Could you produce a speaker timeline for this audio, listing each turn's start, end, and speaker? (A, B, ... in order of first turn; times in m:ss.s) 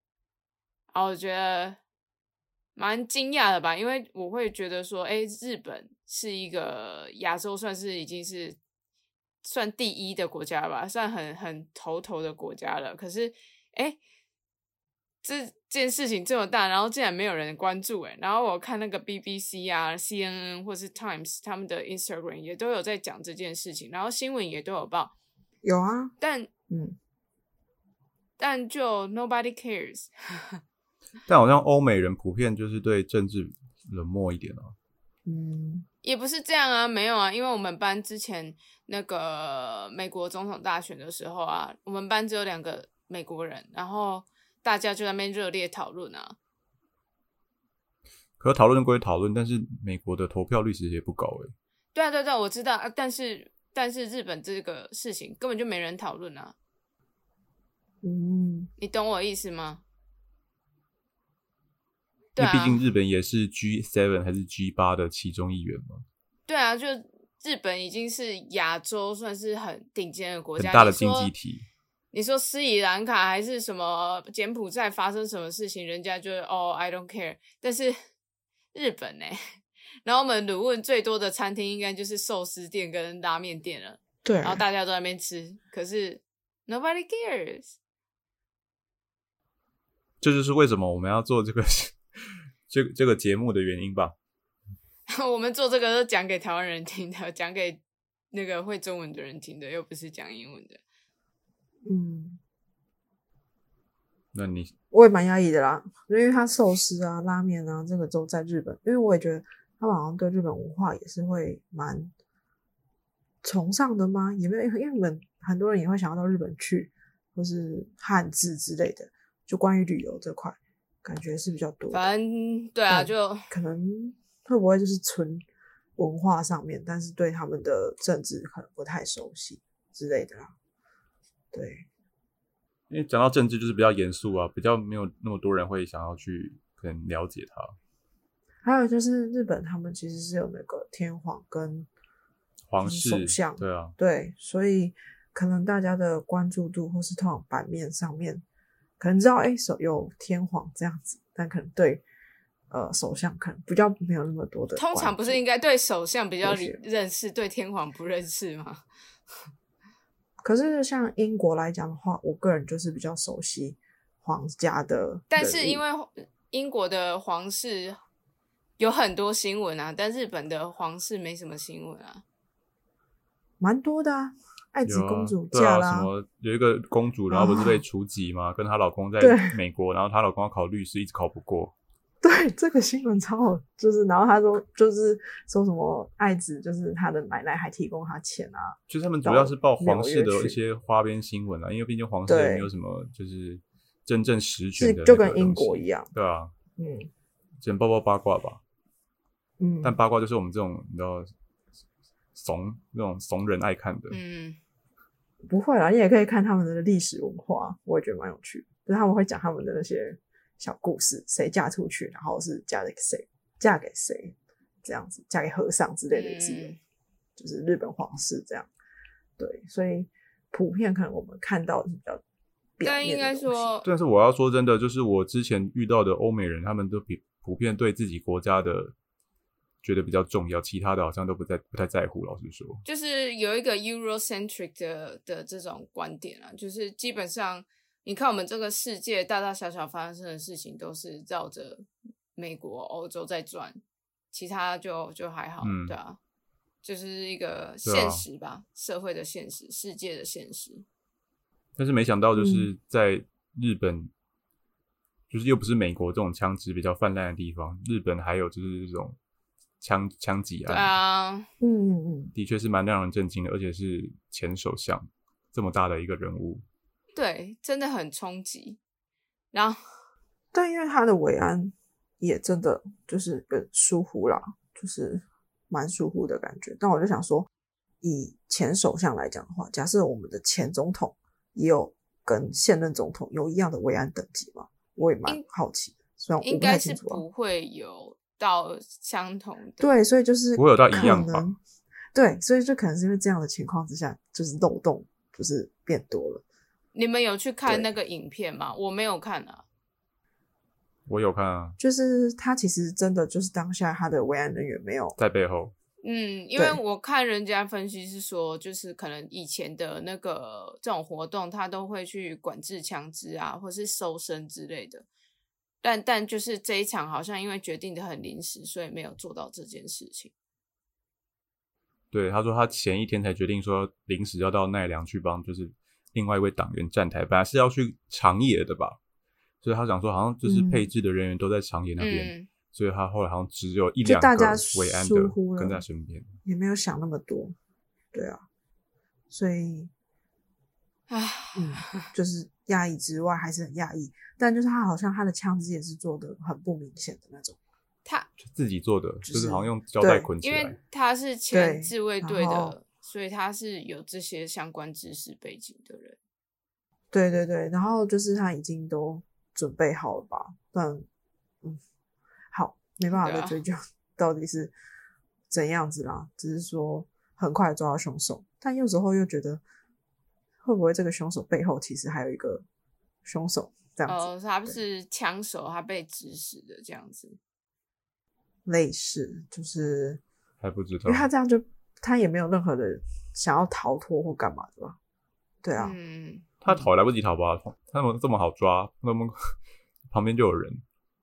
0:00.9-0:01.8 A
0:02.8-0:08.6 A
0:09.4-0:14.0 A
0:15.2-0:25.1 A
0:25.6-0:26.1 B
0:26.2-0:26.5 A
0:26.7-0:27.0 B
0:28.4-0:30.6 A
0:31.3-0:34.7 C
0:35.2-0:35.8 B
0:36.0-0:46.4 A
0:48.4-0:51.5 C
0:51.9-0:56.5 A
0:58.0-0:58.7 B
0:58.8-0:59.8 A
1:02.3-1:02.8 A
1:02.4-1:06.0 C
1:06.5-1:11.3 A
1:10.6-1:11.6 C
1:12.1-1:18.0 A
1:18.7-1:19.4 A
1:20.0-1:27.7 A
1:24.2-1:24.6 B
1:30.2-1:32.0 C
1:32.7-1:34.1 C
1:35.1-1:37.8 A
1:38.3-1:40.8 A
1:41.8-1:42.4 B
1:44.3-1:44.7 C
1:44.9-1:52.1 B
1:53.4-2:02.1 B
2:01.9-2:03.5 A
2:02.9-2:05.4 B
2:06.0-2:10.5 B
2:11.5-2:11.9 B
2:12.9-2:17.8 C
2:18.6-2:21.9 B
2:22.7-2:23.9 C
2:22.8-2:28.4 B
2:29.0-2:32.0 B
2:32.7-2:35.4 B
2:34.8-2:38.8 A
2:36.4-2:36.8 B
2:40.4-2:45.8 B
2:45.3-2:48.0 A
2:48.8-2:52.2 A
2:53.6-2:56.1 B
2:54.8-3:01.7 C
2:57.3-2:57.8 B
2:59.2-2:59.6 B
3:02.2-3:10.6 B
3:08.9-3:16.5 C
3:12.3-3:12.7 B
3:14.8-3:16.1 B
3:16.8-3:17.1 B
3:17.6-3:18.6 C
3:19.6-3:20.0 B
3:19.8-3:21.3 C
3:22.3-3:24.2 C
3:24.1-3:24.6 A
3:25.4-3:36.7 B
3:36.1-3:36.8 A
3:37.4-3:38.7 B
3:39.4-3:42.2 B
3:42.8-3:43.6 B
3:42.8-3:43.8 A
3:43.8-3:48.9 C
3:49.8-3:52.8 C
3:52.8-4:03.8 A
4:04.3-4:06.2 A
4:05.6-4:05.9 C
4:06.8-4:10.8 A
4:07.8-4:08.2 C
4:11.8-4:14.1 C
4:12.4-4:12.7 B
4:15.3-4:19.2 C
4:19.8-4:20.9 C
4:20.7-4:21.5 A
4:21.6-4:22.3 B
4:22.4-4:26.6 C
4:27.1-4:28.8 A
4:29.5-4:29.8 A
4:30.5-4:37.5 B
4:38.0-4:47.2 B
4:46.4-4:49.9 A
4:49.8-4:51.6 B
4:50.6-4:51.5 C
4:52.1-4:56.4 B
4:56.9-4:59.6 A
4:57.6-4:57.9 B
5:01.1-5:01.8 C
5:01.8-5:05.2 B
5:05.2-5:05.7 C
5:06.0-5:15.1 A
5:15.8-5:20.3 A
5:22.1-5:29.0 C
5:29.6-5:36.3 C
5:30.4-5:30.9 B
5:32.0-5:32.5 A
5:34.0-5:35.8 B
5:36.4-5:37.6 B
5:38.1-5:38.4 B
5:39.3-5:39.9 B
5:41.1-5:42.1 A
5:41.5-5:47.6 B
5:48.4-5:50.8 C
5:49.2-5:50.3 B
5:50.4-5:56.2 A
5:51.5-5:52.8 B
5:57.1-6:01.0 B
6:02.5-6:04.7 B
6:03.1-6:03.6 A
6:05.5-6:09.6 B
6:10.6-6:12.6 B
6:13.2-6:14.8 B
6:14.1-6:17.4 A
6:18.6-6:20.2 B
6:20.6-6:21.3 C
6:21.0-6:25.0 B
6:25.6-6:26.0 B
6:25.8-6:26.5 A
6:26.6-6:29.6 C
6:30.1-6:30.8 C